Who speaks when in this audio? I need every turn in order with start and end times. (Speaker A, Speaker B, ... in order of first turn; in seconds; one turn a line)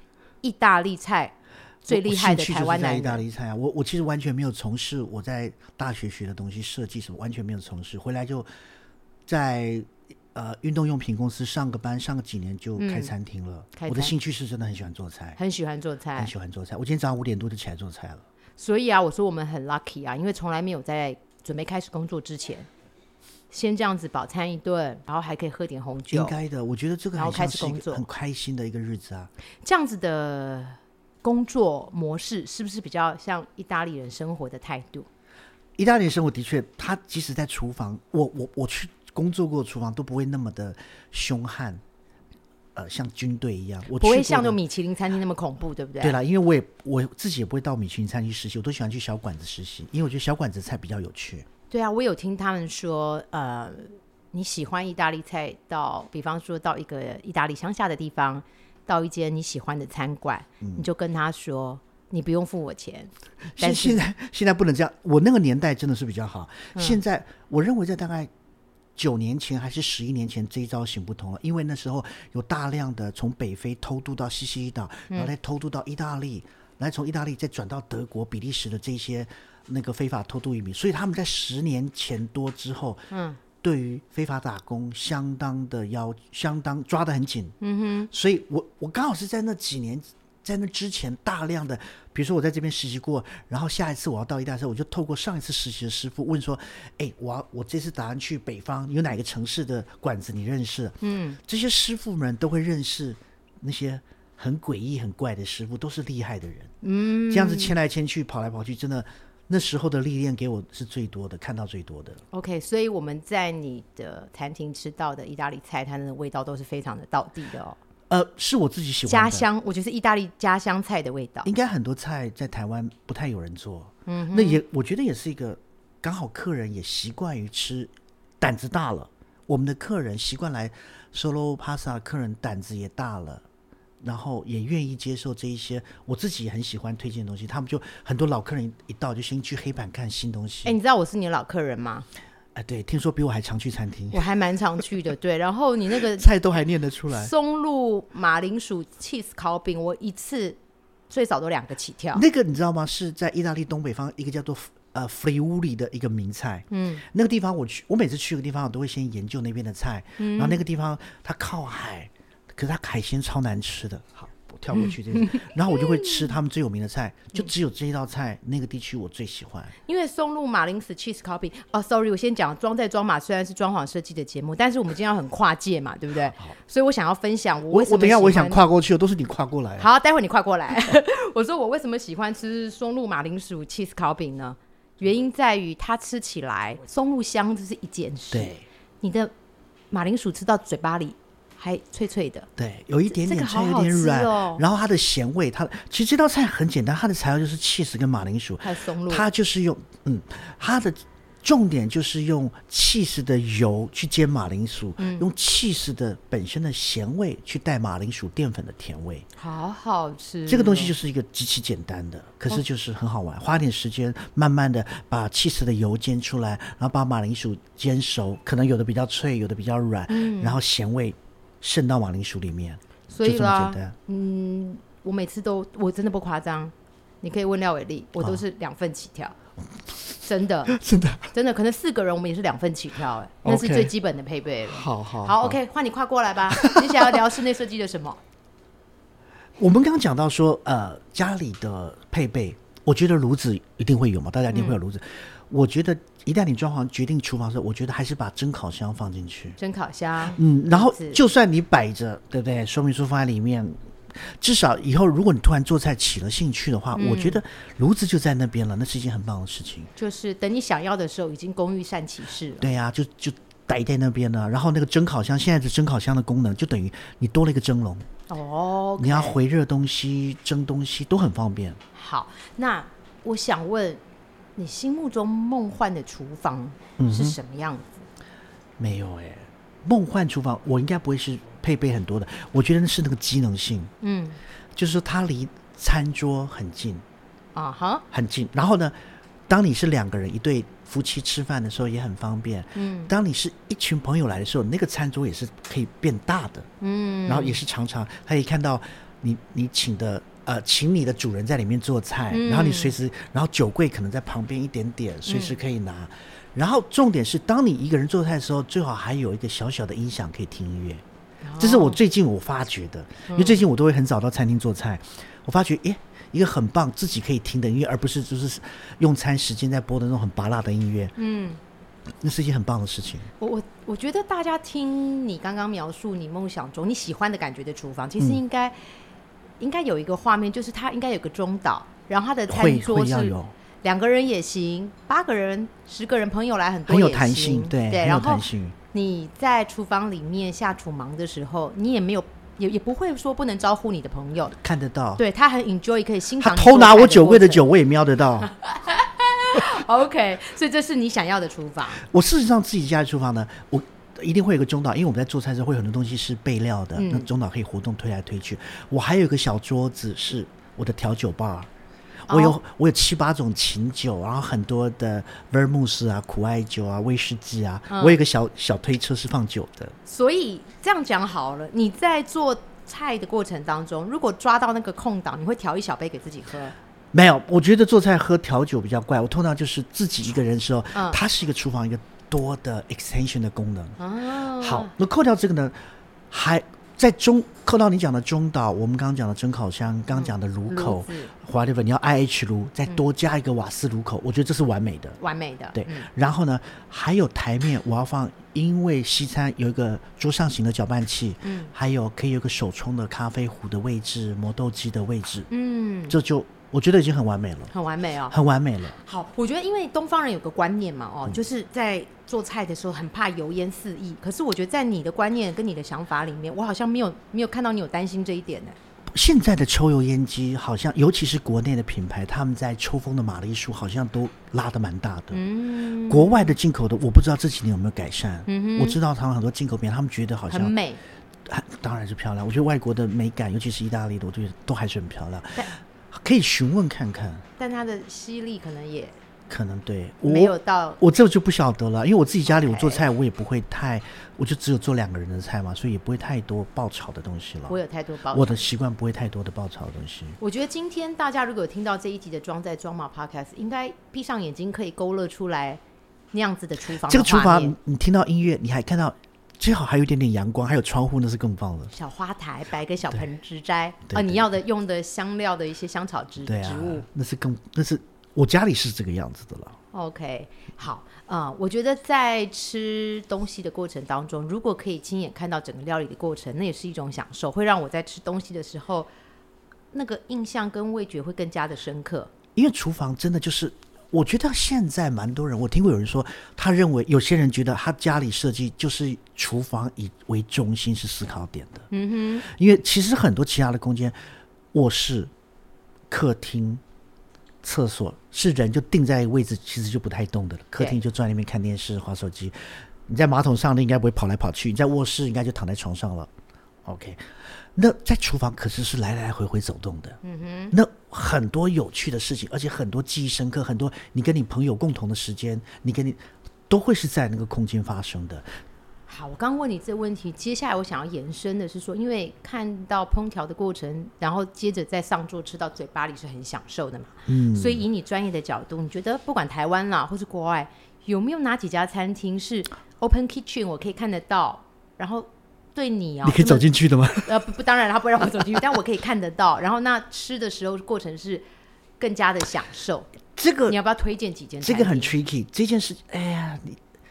Speaker A: 0.4-1.3
Speaker A: 1.9-3.2
Speaker B: 1.9-8.5
Speaker B: 9.3-15.4
Speaker A: 12.8-13.1
Speaker A: 13.8-14.1
Speaker A: 15.4-16.3
Speaker B: 16.2-18.2
Speaker A: 18.6-22.7
Speaker A: 23.5-26.4
Speaker B: 26.1-29.3
Speaker A: 27.1-28.1
Speaker A: 29.6-35.1
Speaker B: 35.8-41.8
Speaker B: 42.8-44.6
Speaker A: 43.9-46.2
Speaker B: 46.0-51.5
Speaker A: 51.7-64.0
Speaker B: 60.6-60.9
Speaker B: 63.5-68.3
Speaker B: 69.0-83.1
Speaker A: 83.1-83.4
Speaker B: 83.6-87.5
Speaker A: 87.6-88.1
Speaker B: 88.1-106.7
Speaker A: 101.0-101.4
Speaker A: 106.8-107.8
Speaker B: 107.3-112.2
Speaker A: 112.3-117.8
Speaker B: 118.1-119.5
Speaker A: 119.1-121.5
Speaker B: 121.4-133.4
Speaker A: 124.1-124.6
Speaker B: 134.0-140.8
Speaker A: 140.6-142.1
Speaker B: 142.6-144.2
Speaker A: 144.1-146.3
Speaker B: 146.2-147.3
Speaker A: 147.1-150.6
Speaker A: 151.1-152.2
Speaker B: 152.1-169.8
Speaker A: 156.7-157.1
Speaker A: 160.2-160.6
Speaker A: 164.8-166.3
Speaker A: 169.8-178.6
Speaker B: 177.7-179.9
Speaker A: 179.8-189.3
Speaker B: 188.3-188.6
Speaker A: 189.9-192.5
Speaker B: 192.6-209.3
Speaker A: 193.1-194.6
Speaker A: 198.6-199.3
Speaker A: 205.0-205.3
Speaker A: 209.4-210.9
Speaker B: 210.5-223.9
Speaker A: 220.1-220.6
Speaker A: 223.1-229.3
Speaker A: 230.2-230.8
Speaker B: 230.7-231.3
Speaker A: 231.3-238.2
Speaker B: 233.4-233.9
Speaker B: 234.7-235.6
Speaker B: 236.5-237.2
Speaker B: 239.6-249.6
Speaker A: 244.5-244.8
Speaker A: 249.6-251.2
Speaker B: 250.3-259.9
Speaker A: 256.9-257.4
Speaker A: 260.0-262.7
Speaker B: 262.6-268.1
Speaker A: 268.3-269.4
Speaker B: 269.0-271.8
Speaker A: 271.9-274.0
Speaker A: 274.6-278.1
Speaker B: 277.0-277.4
Speaker B: 278.8-283.9
Speaker A: 284.0-284.4
Speaker B: 284.8-287.0
Speaker A: 287.5-288.0
Speaker B: 288.1-289.0
Speaker B: 289.5-296.7
Speaker A: 292.8-293.1
Speaker A: 296.8-297.6
Speaker B: 297.3-311.0
Speaker A: 302.3-303.0
Speaker A: 305.3-305.6
Speaker A: 311.4-312.0
Speaker B: 311.6-321.2
Speaker A: 313.3-313.6
Speaker A: 321.2-321.6
Speaker B: 322.2-323.3
Speaker A: 323.4-328.8
Speaker A: 329.6-344.6
Speaker B: 332.5-333.5
Speaker B: 336.9-338.8
Speaker B: 344.6-345.2
Speaker A: 345.2-347.7
Speaker B: 346.4-348.5
Speaker A: 348.5-352.0
Speaker B: 351.9-361.7
Speaker A: 356.9-357.3
Speaker B: 362.3-369.9
Speaker A: 362.3-362.6
Speaker A: 367.9-368.2
Speaker A: 370.1-376.8
Speaker B: 377.1-384.0
Speaker A: 380.9-381.2
Speaker A: 384.0-384.9
Speaker B: 384.6-385.8
Speaker B: 386.3-395.2
Speaker A: 390.1-391.3
Speaker A: 395.2-396.1
Speaker B: 395.7-405.5
Speaker A: 401.4-401.7
Speaker A: 405.5-406.2
Speaker B: 406.1-407.7
Speaker A: 407.7-408.4
Speaker B: 408.3-409.0
Speaker A: 409.0-418.8
Speaker B: 419.1-425.4
Speaker A: 425.3-426.6
Speaker B: 426.1-430.7
Speaker A: 428.5-429.0
Speaker A: 430.5-431.0
Speaker B: 431.4-437.4
Speaker A: 437.6-439.2
Speaker B: 439.5-447.8
Speaker A: 440.2-441.0
Speaker A: 442.4-443.1
Speaker A: 447.7-448.6
Speaker B: 448.3-450.4
Speaker A: 450.4-455.8
Speaker A: 456.3-457.8
Speaker B: 457.0-461.9
Speaker A: 461.9-467.1
Speaker B: 464.1-464.5
Speaker B: 466.4-469.8
Speaker A: 469.9-479.1
Speaker A: 479.9-482.3
Speaker B: 482.6-491.9
Speaker A: 491.9-492.4
Speaker B: 492.4-494.2
Speaker B: 494.7-495.3
Speaker B: 496.1-496.8
Speaker B: 497.6-506.3
Speaker B: 506.9-510.2
Speaker A: 510.2-510.8
Speaker B: 510.7-518.5
Speaker A: 519.1-536.7
Speaker B: 527.3-527.9
Speaker B: 536.2-537.4
Speaker A: 537.2-541.4
Speaker A: 542.0-543.1
Speaker B: 543.4-543.8
Speaker A: 543.7-545.1
Speaker B: 544.6-546.8